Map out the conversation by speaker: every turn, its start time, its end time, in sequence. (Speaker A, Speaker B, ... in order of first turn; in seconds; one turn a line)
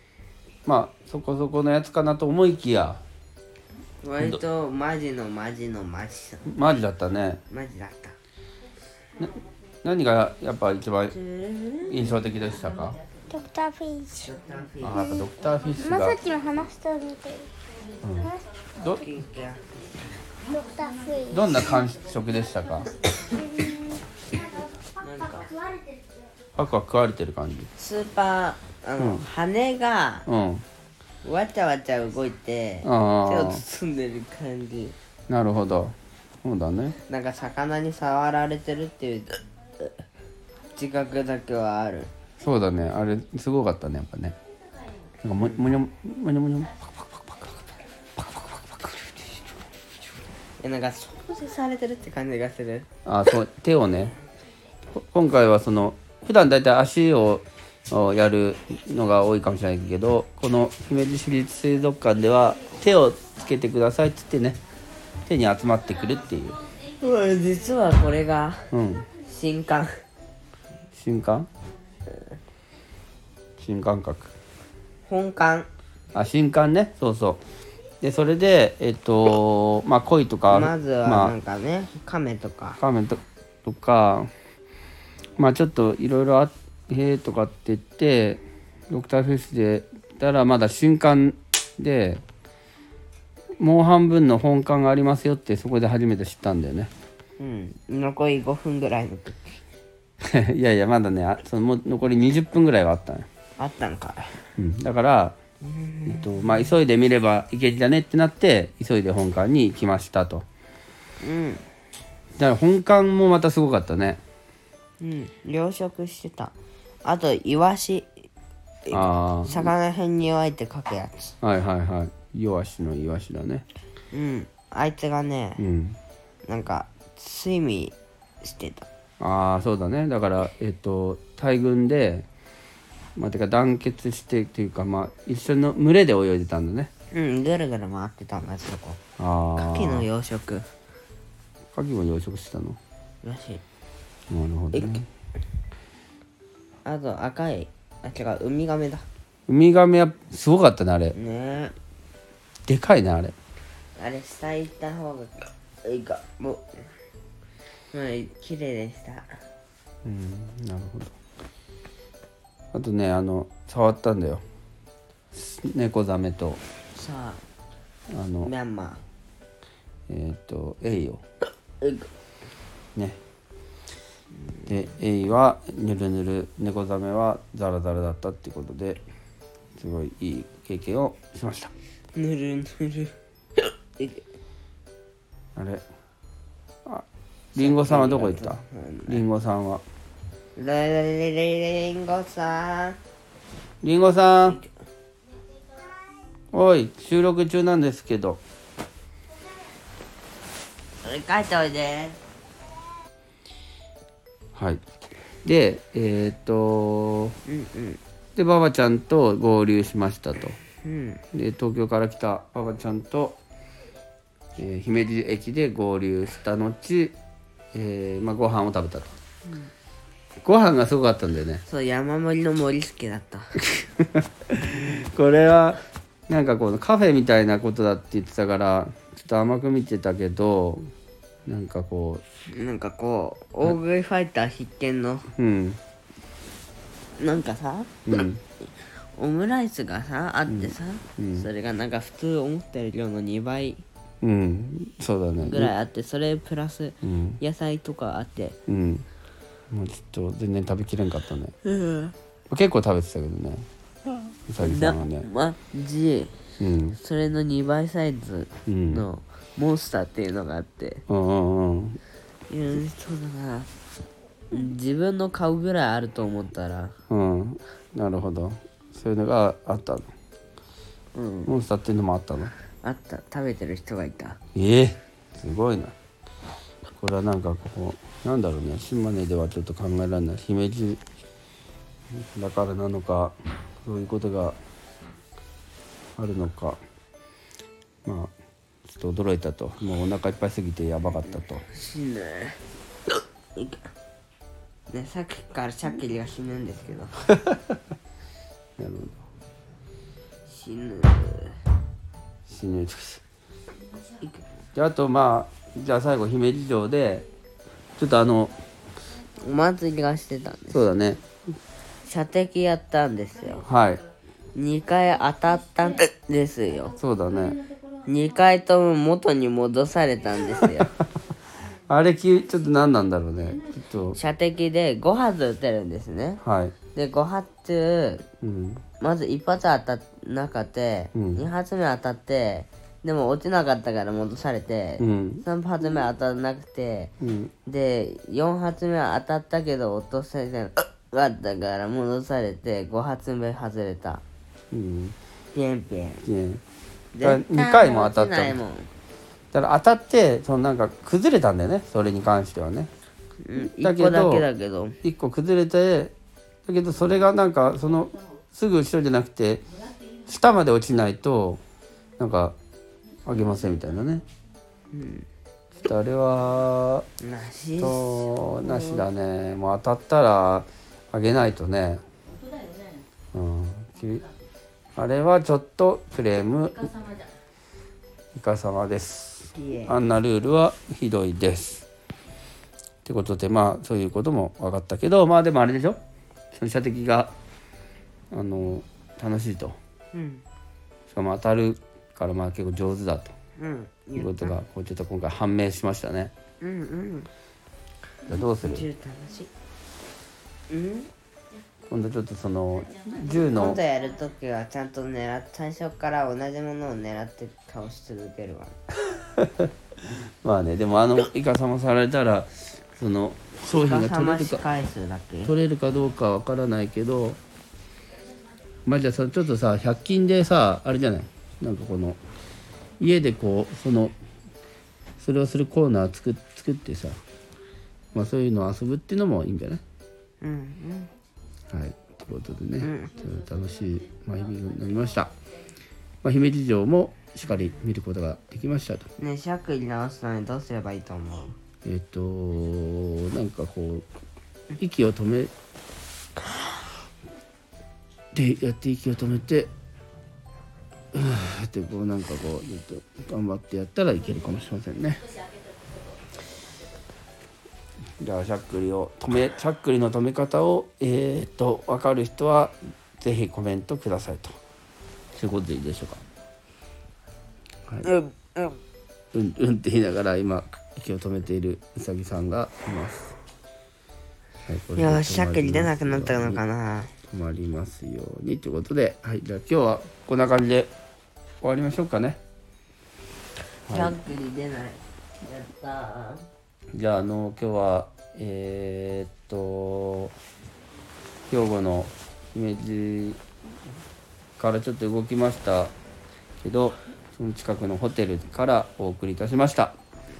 Speaker A: 0.7-3.0
Speaker B: 4.0-6.5
Speaker A: 6.5-7.4
Speaker B: 7.5-8.1
Speaker A: 9.2-11.2
Speaker B: 11.1-12.2
Speaker A: 11.9-13.0
Speaker C: 13.3-14.3
Speaker B: 14.1-15.2
Speaker A: 14.8-16.2
Speaker C: 14.9-17.5
Speaker A: 18.0-19.0
Speaker C: 18.2-18.4
Speaker B: 18.8-19.7
Speaker C: 20.5-21.7
Speaker A: 21.3-22.9
Speaker C: 23.3-24.0
Speaker B: 25.0-25.5
Speaker C: 25.2-26.1
Speaker A: 26.6-27.7
Speaker B: 27.8-30.2
Speaker A: 29.0-29.2
Speaker A: 30.3-30.6
Speaker B: 31.2-34.9
Speaker A: 32.8-33.6
Speaker A: 35.3-37.0
Speaker B: 37.1-39.9
Speaker B: 40.7-42.1
Speaker A: 42.4-44.4
Speaker A: 45.2-47.6
Speaker A: 48.2-49.4
Speaker B: 50.6-52.9
Speaker A: 53.0-54.1
Speaker A: 54.9-64.6
Speaker A: 65.2-66.6
Speaker B: 67.0-68.7
Speaker A: 68.7-69.1
Speaker B: 69.2-70.0
Speaker A: 70.9-71.5
Speaker A: 73.6-74.3
Speaker B: 75.0-75.7
Speaker A: 76.1-77.4
Speaker A: 78.0-81.3
Speaker B: 80.5-82.8
Speaker A: 82.8-84.3
Speaker A: 85.4-92.2
Speaker A: 93.6-96.9
Speaker B: 97.4-99.6
Speaker A: 100.2-103.3
Speaker B: 103.6-104.3
Speaker A: 104.6-105.4
Speaker B: 105.6-106.3
Speaker A: 106.1-110.4
Speaker B: 111.2-111.6
Speaker A: 112.4-114.2
Speaker B: 115.0-116.5
Speaker B: 117.0-118.1
Speaker B: 118.8-121.3
Speaker A: 118.9-119.7
Speaker A: 121.4-123.7
Speaker B: 124.1-125.6
Speaker A: 125.6-126.0
Speaker B: 126.5-128.9
Speaker A: 129.2-132.2
Speaker A: 133.2-136.9
Speaker B: 137.1-139.0
Speaker A: 139.2-140.1
Speaker B: 139.6-140.7
Speaker A: 141.7-142.8
Speaker B: 143.2-143.6
Speaker A: 144.3-145.1
Speaker B: 144.7-145.0
Speaker B: 146.8-149.0
Speaker A: 149.5-151.1
Speaker B: 151.1-151.7
Speaker A: 152.7-153.3
Speaker B: 154.0-156.8
Speaker B: 157.9-159.4
Speaker A: 160.0-161.1
Speaker A: 162.7-164.4
Speaker A: 165.3-166.6
Speaker B: 166.9-167.4
Speaker A: 168.1-168.5
Speaker B: 168.4-169.0
Speaker A: 170.1-171.2
Speaker B: 171.8-172.1
Speaker A: 174.7-179.0
Speaker A: 179.8-181.7
Speaker B: 182.1-183.1
Speaker A: 185.6-185.8
Speaker A: 186.8-189.8
Speaker B: 187.6-189.2
Speaker B: 190.6-193.0
Speaker A: 193.8-194.6
Speaker A: 196.5-198.4
Speaker B: 201.0-202.2
Speaker A: 204.6-204.8
Speaker A: 205.4-207.3
Speaker B: 207.4-208.0
Speaker A: 208.3-210.6
Speaker B: 210.8-211.2
Speaker A: 211.3-213.4
Speaker A: 214.6-217.2
Speaker A: 217.7-219.1
Speaker A: 220.4-221.6
Speaker B: 221.7-223.6
Speaker A: 223.8-230.9
Speaker B: 224.7-225.0
Speaker A: 231.4-232.2
Speaker B: 232.5-235.3
Speaker A: 235.3-235.8
Speaker B: 237.2-237.9
Speaker A: 238.1-238.4
Speaker B: 239.1-243.8
Speaker A: 240.5-241.5
Speaker A: 244.2-245.7
Speaker B: 245.4-248.6
Speaker A: 247.0-247.4
Speaker A: 248.7-249.0
Speaker A: 249.7-251.5
Speaker B: 251.6-252.1
Speaker A: 252.5-253.7
Speaker A: 254.5-255.2
Speaker B: 254.6-256.3
Speaker A: 256.6-257.0
Speaker B: 257.0-261.0
Speaker A: 258.7-259.1
Speaker A: 261.1-262.0
Speaker B: 262.5-263.7
Speaker B: 264.5-266.9
Speaker A: 267.1-270.1
Speaker B: 271.1-271.5
Speaker A: 271.4-272.5
Speaker B: 272.8-274.4
Speaker A: 274.5-275.9
Speaker A: 277.0-281.0
Speaker A: 282.1-284.6
Speaker A: 286.2-286.8
Speaker A: 288.0-288.3
Speaker A: 288.9-291.6
Speaker B: 291.2-292.6
Speaker B: 293.6-293.8
Speaker B: 294.9-297.2
Speaker A: 297.4-297.8
Speaker A: 298.8-299.2
Speaker B: 300.5-301.5
Speaker A: 302.5-303.2
Speaker A: 304.7-307.2
Speaker A: 308.0-308.5
Speaker B: 309.4-310.9
Speaker A: 310.7-311.2
Speaker B: 312.0-313.7
Speaker A: 313.6-314.0
Speaker B: 314.5-317.0
Speaker A: 317.0-317.6
Speaker B: 318.0-320.9
Speaker A: 321.9-324.2
Speaker B: 324.1-326.4
Speaker A: 326.4-326.7
Speaker B: 326.9-328.2
Speaker A: 328.4-328.8
Speaker B: 329.0-337.1
Speaker A: 331.1-331.4
Speaker A: 335.0-335.4
Speaker A: 337.2-337.5
Speaker B: 337.6-344.2
Speaker A: 344.7-345.1
Speaker B: 345.5-346.2
Speaker A: 346.2-346.6
Speaker B: 347.1-348.9
Speaker A: 347.2-348.6
Speaker A: 349.5-352.9
Speaker B: 353.4-355.0
Speaker A: 353.6-354.4
Speaker A: 355.0-356.1
Speaker A: 356.6-359.6
Speaker A: 360.3-361.6
Speaker A: 362.2-362.5
Speaker A: 363.2-364.2
Speaker B: 364.9-365.2
Speaker A: 365.8-367.1
Speaker B: 367.2-369.1
Speaker A: 367.8-372.0
Speaker A: 373.3-374.2
Speaker A: 374.9-376.9
Speaker A: 378.4-381.8
Speaker B: 379.5-380.0
Speaker A: 383.0-386.0
Speaker A: 386.5-387.3
Speaker A: 388.3-389.8
Speaker B: 390.1-390.4
Speaker A: 391.1-393.3
Speaker B: 393.6-394.6
Speaker A: 394.1-396.3
Speaker B: 396.6-397.3
Speaker A: 398.3-398.9
Speaker B: 398.5-399.5
Speaker B: 400.7-401.1
Speaker A: 401.9-403.8
Speaker B: 403.5-408.8
Speaker A: 409.4-414.6
Speaker B: 413.6-415.5
Speaker A: 415.4-417.4
Speaker A: 418.9-422.2
Speaker A: 423.0-424.1
Speaker A: 425.2-427.2
Speaker A: 428.1-429.8
Speaker B: 430.4-431.1
Speaker A: 431.7-435.3
Speaker B: 432.8-433.1
Speaker A: 436.2-439.1
Speaker B: 439.2-441.5
Speaker A: 441.8-444.1
Speaker A: 444.8-445.5
Speaker A: 448.3-449.7
Speaker A: 451.1-455.2
Speaker A: 458.2-464.6
Speaker A: 465.3-466.2
Speaker B: 468.0-468.8
Speaker A: 469.3-473.4
Speaker A: 474.7-476.6
Speaker B: 474.9-477.1
Speaker A: 477.3-480.9
Speaker A: 481.6-482.4
Speaker A: 483.9-484.1
Speaker B: 483.9-486.4
Speaker A: 486.9-490.3
Speaker A: 491.5-493.4
Speaker A: 494.6-495.9
Speaker A: 496.6-499.9